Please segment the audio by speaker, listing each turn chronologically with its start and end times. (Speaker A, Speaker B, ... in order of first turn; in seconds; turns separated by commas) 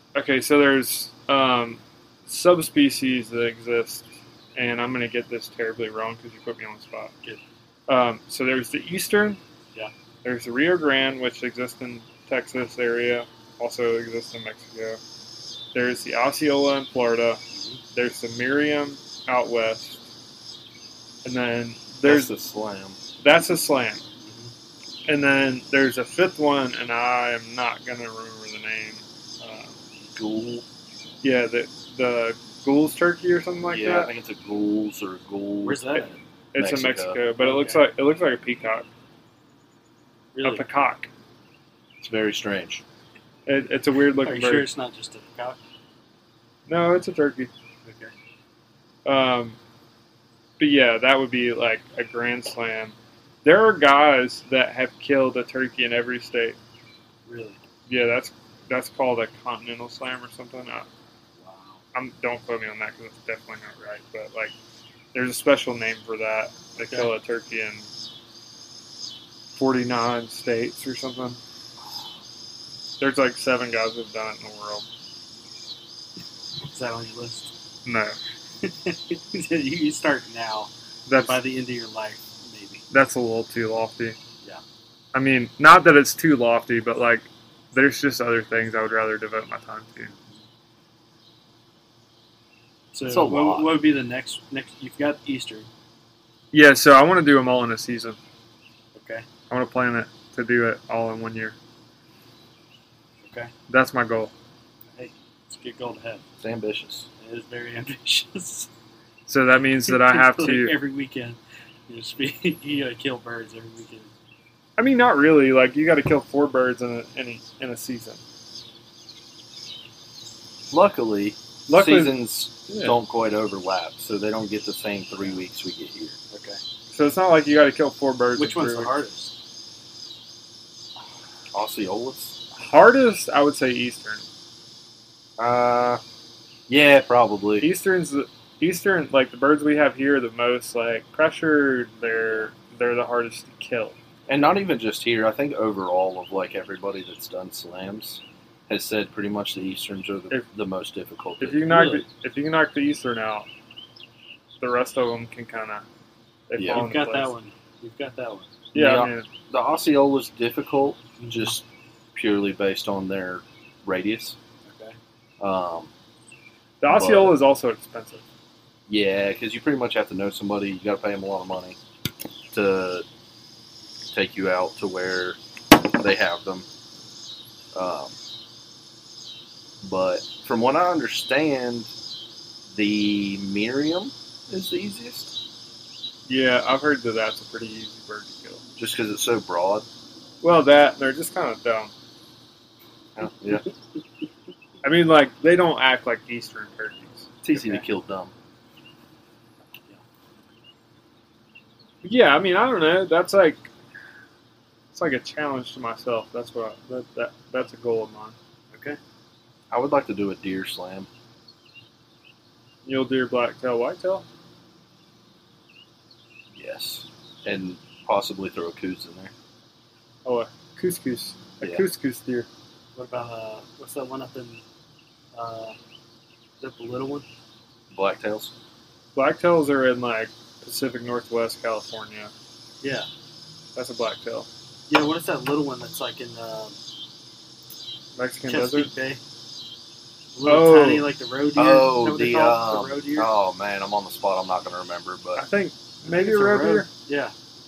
Speaker A: 0.1-7.1, Speaker A: 7.9-9.4, Speaker A: 10.2-15.0, Speaker A: 15.7-17.4, Speaker B: 17.5-17.8, Speaker A: 17.9-20.0, Speaker A: 21.2-22.3, Speaker C: 22.0-23.0, Speaker A: 23.2-24.0, Speaker B: 24.2-24.5, Speaker A: 25.1-29.8, Speaker C: 30.1-30.6, Speaker A: 31.2-34.1, Speaker C: 33.7-36.0, Speaker B: 35.6-36.2, Speaker A: 36.5-38.9, Speaker C: 36.6-37.2, Speaker B: 37.4-37.9, Speaker B: 40.4-40.6, Speaker A: 40.4-41.1, Speaker C: 42.0-42.8, Speaker A: 43.5-44.7, Speaker B: 44.2-45.6, Speaker A: 46.7-47.5, Speaker B: 47.8-48.1, Speaker A: 49.0-49.6, Speaker A: 50.6-56.6, Speaker B: 57.3-57.6, Speaker A: 57.9-60.9, Speaker B: 61.4-61.8, Speaker A: 61.9-64.5, Speaker A: 65.1-67.9, Speaker B: 66.8-67.1, Speaker A: 69.5-71.4, Speaker A: 73.0-74.8, Speaker B: 76.6-77.5, Speaker A: 77.8-78.2, Speaker B: 78.6-82.8, Speaker A: 81.1-81.4, Speaker A: 82.9-84.2, Speaker A: 85.1-90.1, Speaker B: 90.1-90.5, Speaker B: 92.9-95.7, Speaker C: 93.1-93.8, Speaker A: 96.5-98.2, Speaker B: 99.0-99.3, Speaker A: 99.5-101.5, Speaker B: 103.2-103.5, Speaker A: 103.7-104.3, Speaker B: 104.9-106.2, Speaker C: 106.4-107.1, Speaker B: 107.2-108.7, Speaker A: 109.3-110.8, Speaker B: 109.9-111.4, Speaker B: 111.9-114.1, Speaker A: 114.8-118.2, Speaker C: 120.7-126.2, Speaker A: 121.7-122.2, Speaker A: 122.7-123.0, Speaker B: 126.3-126.6, Speaker A: 126.9-128.9, Speaker B: 128.4-129.3, Speaker C: 131.5-132.4, Speaker A: 132.5-134.2, Speaker C: 135.4-136.0, Speaker C: 136.7-137.7, Speaker A: 137.6-144.0, Speaker C: 144.3-152.0, Speaker A: 151.4-153.5, Speaker A: 154.6-155.8, Speaker A: 156.5-157.3, Speaker C: 156.6-156.9, Speaker B: 156.7-158.6, Speaker A: 158.7-159.3, Speaker C: 158.8-164.4, Speaker B: 161.2-161.5, Speaker B: 164.7-165.0, Speaker C: 165.4-165.9, Speaker A: 166.8-168.2, Speaker C: 166.9-167.4, Speaker C: 168.9-171.8, Speaker C: 172.5-173.1, Speaker C: 174.1-175.4, Speaker C: 175.9-176.7, Speaker C: 177.7-178.2, Speaker C: 179.8-181.9, Speaker C: 182.7-185.3, Speaker A: 186.3-188.6, Speaker C: 188.8-189.9, Speaker A: 190.4-191.9, Speaker C: 193.2-193.7, Speaker A: 194.8-197.3, Speaker C: 197.4-198.3, Speaker B: 197.5-197.8, Speaker A: 202.0-203.7, Speaker A: 204.9-208.4, Speaker B: 208.7-209.0, Speaker C: 209.7-211.1, Speaker A: 212.8-214.2, Speaker C: 216.5-219.3, Speaker A: 220.2-222.5, Speaker B: 222.9-224.6, Speaker B: 225.3-225.8, Speaker B: 226.6-227.3, Speaker C: 227.9-228.5, Speaker A: 229.2-232.3, Speaker B: 232.8-233.1, Speaker A: 233.8-234.5, Speaker B: 234.9-236.8, Speaker A: 238.2-238.9, Speaker B: 238.5-239.2, Speaker B: 240.3-243.3, Speaker A: 240.4-241.1, Speaker C: 241.6-245.4, Speaker A: 245.4-246.9, Speaker B: 246.0-247.3